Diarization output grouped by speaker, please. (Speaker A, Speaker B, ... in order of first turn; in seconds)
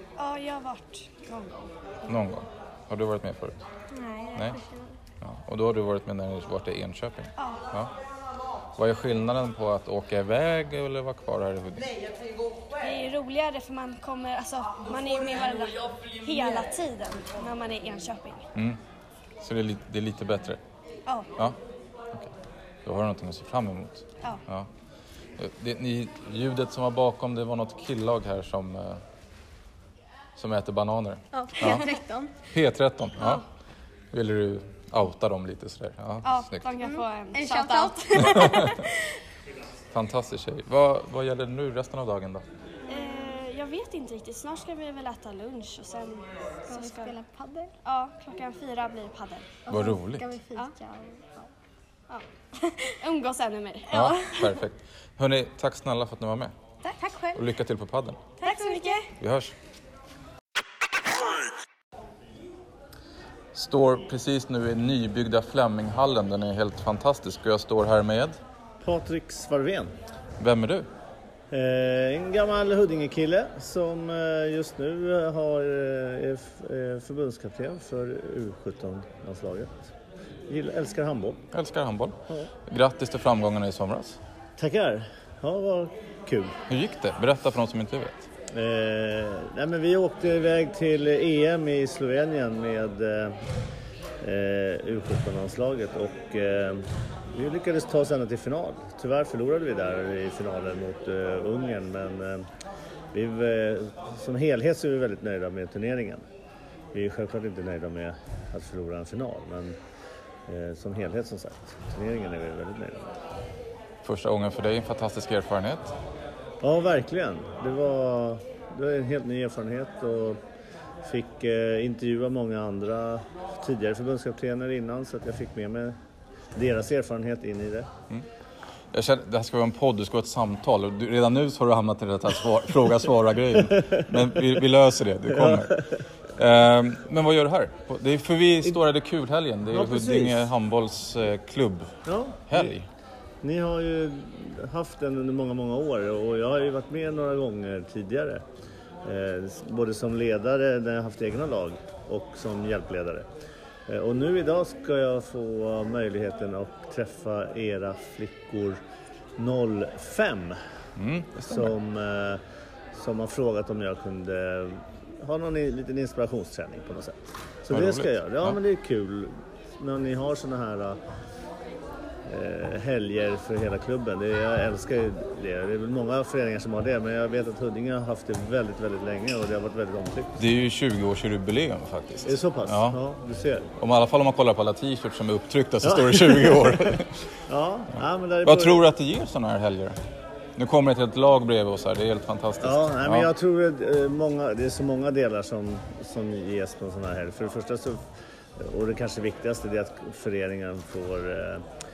Speaker A: 0.2-1.7, 7.4-7.7, 12.8-18.5, 21.1-21.3, 36.2-38.8, 42.9-47.2, 47.8-49.6, 52.9-54.5, 58.4-59.1
Speaker B: 2.1-3.7, 5.2-7.9, 8.8-11.9, 18.6-18.8, 19.4-20.6, 22.8-24.7, 25.4-29.0, 30.4-31.9, 32.5-33.4, 34.1-36.7, 38.2-38.7, 39.9-42.5, 49.7-50.4, 53.9-56.5, 57.4-58.2, 59.2-59.5, 63.5-68.4, 70.4-70.9, 81.5-84.2, 86.7-88.3, 114.0-116.0, 128.9-142.9, 161.0-161.8, 167.7-168.6, 180.4-183.0, 183.8-187.2, 188.4-190.0, 190.6-193.3
Speaker C: 3.9-4.9, 31.3-32.3, 36.8-38.8, 46.7-47.7, 49.7-51.5, 56.8-57.4, 58.4-59.0
Speaker D: 68.8-70.0, 71.5-79.9, 80.5-81.4, 84.6-86.6, 88.5-93.4, 94.2-102.5, 103.1-106.2, 106.9-109.8, 110.5-113.1, 116.6-120.4, 121.0-126.0, 126.5-127.9, 135.3-135.8, 139.7-140.4, 142.1-142.7, 143.4-148.4, 149.0-153.3, 153.9-158.8, 159.4-160.6, 161.5-162.4, 162.9-171.0, 172.2-180.4, 182.2-183.7, 185.8-188.8, 192.6-201.7